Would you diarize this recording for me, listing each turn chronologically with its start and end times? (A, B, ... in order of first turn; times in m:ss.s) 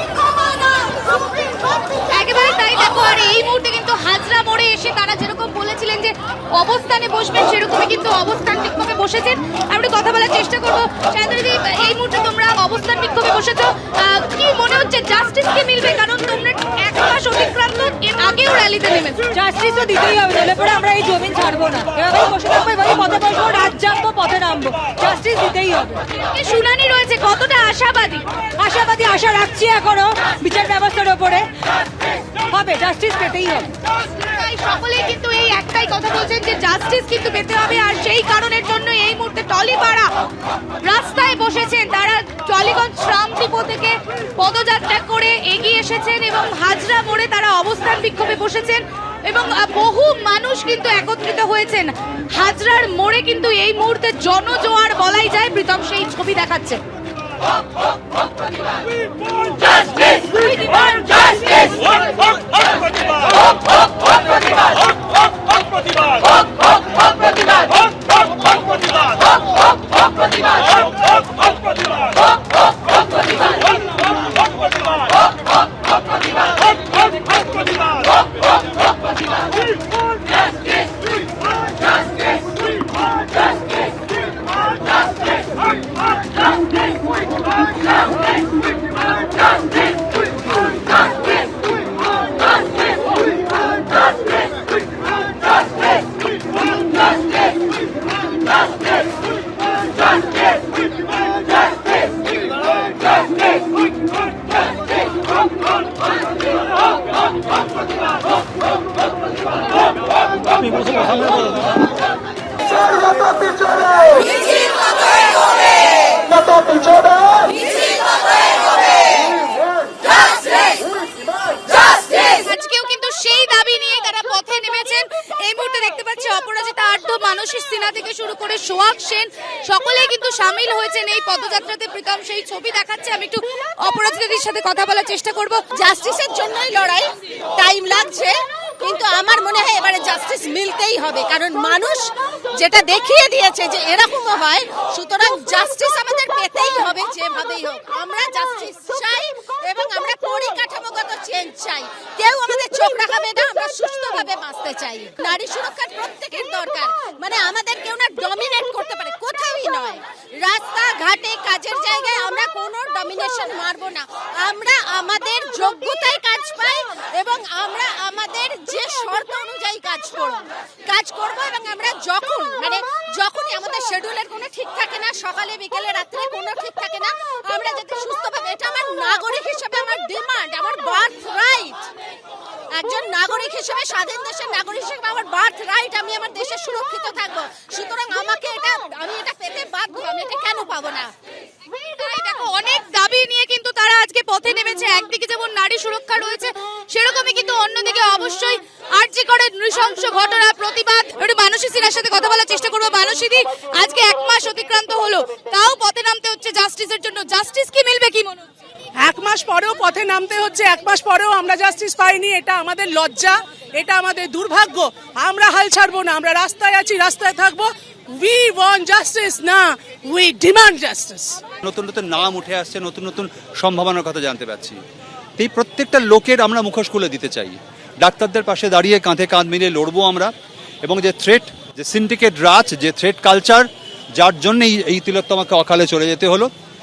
0:00.3-0:01.5 A
0:02.1-0:19.4 A
0:19.3-0:26.0 B
0:25.5-0:31.1 A
0:29.1-0:30.0 B
0:30.6-0:31.5 B
0:32.5-0:33.7 B
0:34.1-0:40.1 A
0:40.8-0:56.8 A
1:00.4-1:01.2 A
2:01.9-2:15.7 A
2:15.7-3:01.9 C
3:02.7-3:11.1 C
3:11.8-3:28.4 A
3:29.0-3:41.4 D
3:41.6-3:44.8 E
3:45.4-3:50.3 E
3:50.8-3:56.5 E